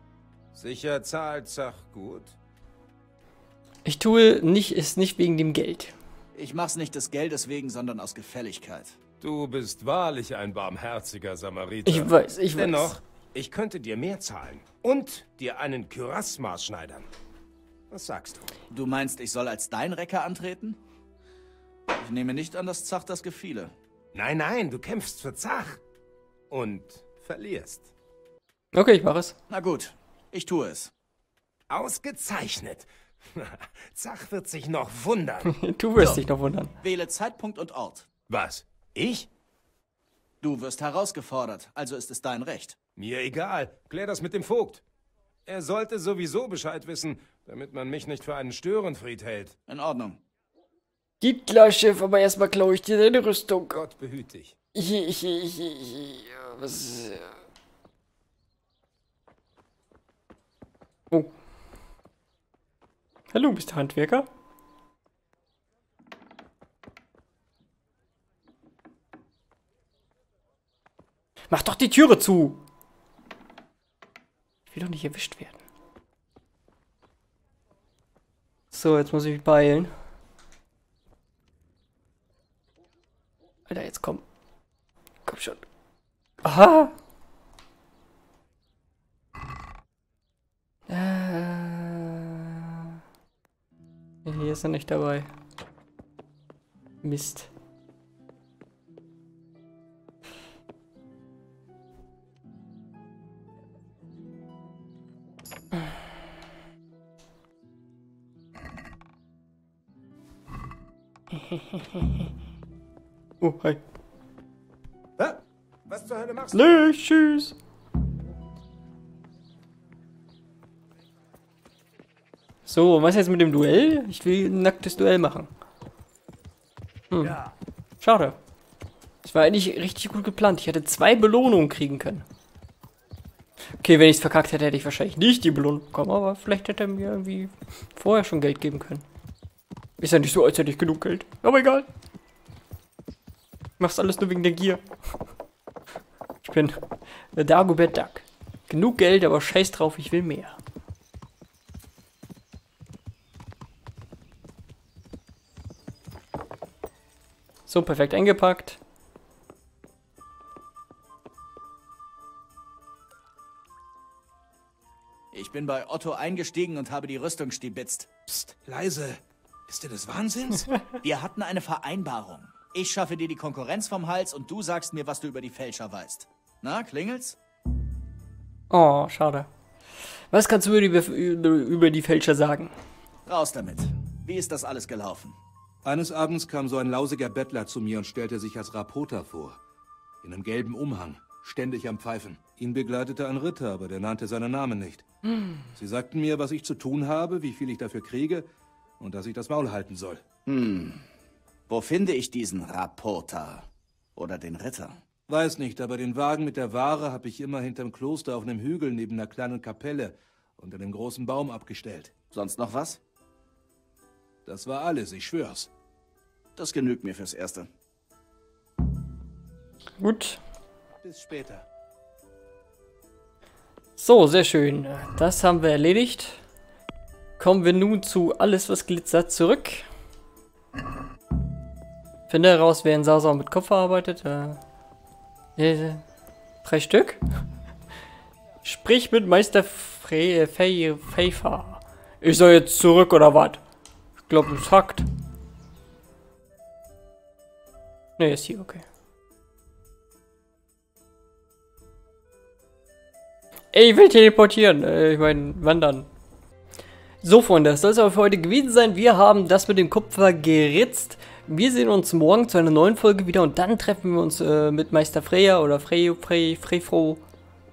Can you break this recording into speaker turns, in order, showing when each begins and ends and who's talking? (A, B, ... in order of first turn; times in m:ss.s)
0:00.5-0:02.4 A
0:03.8-0:05.9 B
0:06.4-0:09.0 C
0:09.2-0:17.1 A
0:11.9-0:12.9 B
0:17.9-0:18.5 A
0:18.7-0:20.8 C
0:21.9-0:23.7 C
0:24.1-0:25.8 A
0:26.5-0:27.9 A
0:28.7-0:29.4 B
0:29.5-0:30.9 C
0:31.7-0:35.5 A
0:35.5-0:36.7 B
0:36.8-0:38.1 C
0:38.3-0:39.3 A
0:40.4-0:42.8 C
0:43.0-0:44.8 A
0:45.5-0:49.6 A
0:49.7-0:50.2 C
0:51.2-0:53.8 B
0:53.7-0:54.6 A
0:54.8-0:57.3 B
1:03.3-1:04.3 B
1:11.5-1:12.6 B
1:14.7-1:15.6 B
1:18.7-1:19.9 B
1:23.7-1:24.2 B
1:25.2-1:25.6 B
1:26.4-1:26.9 B
1:30.9-1:33.0 B
1:34.2-1:35.3 B
1:37.0-1:37.5 B
1:51.5-1:52.0 B
1:53.4-1:53.8 B
1:55.2-1:56.8 A
1:56.5-1:57.6 B
2:02.7-2:05.5 B
2:07.1-2:07.4 B
2:08.0-2:08.4 B
2:09.2-2:12.2 B
2:13.8-2:19.0 B
2:20.0-2:21.9 B
2:23.8-2:24.8 B
2:26.4-2:26.8 B
2:27.3-2:30.6 B
2:37.7-2:38.8 B
2:45.3-2:48.1 C
2:48.3-2:50.7 D
2:51.0-2:57.4 C
2:58.7-2:59.5 B
3:00.3-3:02.7 B
3:03.3-3:05.4 C
3:05.8-3:09.6 D
3:10.2-3:15.1 D
3:15.6-3:18.5 D
3:19.0-3:20.2 D
3:20.5-3:21.0 C
3:21.7-3:25.0 C
3:25.3-3:32.1 D
3:32.3-3:33.0 C
3:34.5-3:35.7 D
3:36.6-3:37.7 C
3:40.0-3:40.4 B
3:41.0-3:41.6 D
3:44.0-3:46.4 B
3:47.4-3:49.9 B
3:52.3-3:54.6 B
3:55.6-3:56.0 B
3:56.6-3:57.2 B
3:58.6-4:03.6 B
4:04.3-4:05.1 B
4:08.2-4:08.8 B
4:13.7-4:16.1 B
4:17.2-4:27.2 B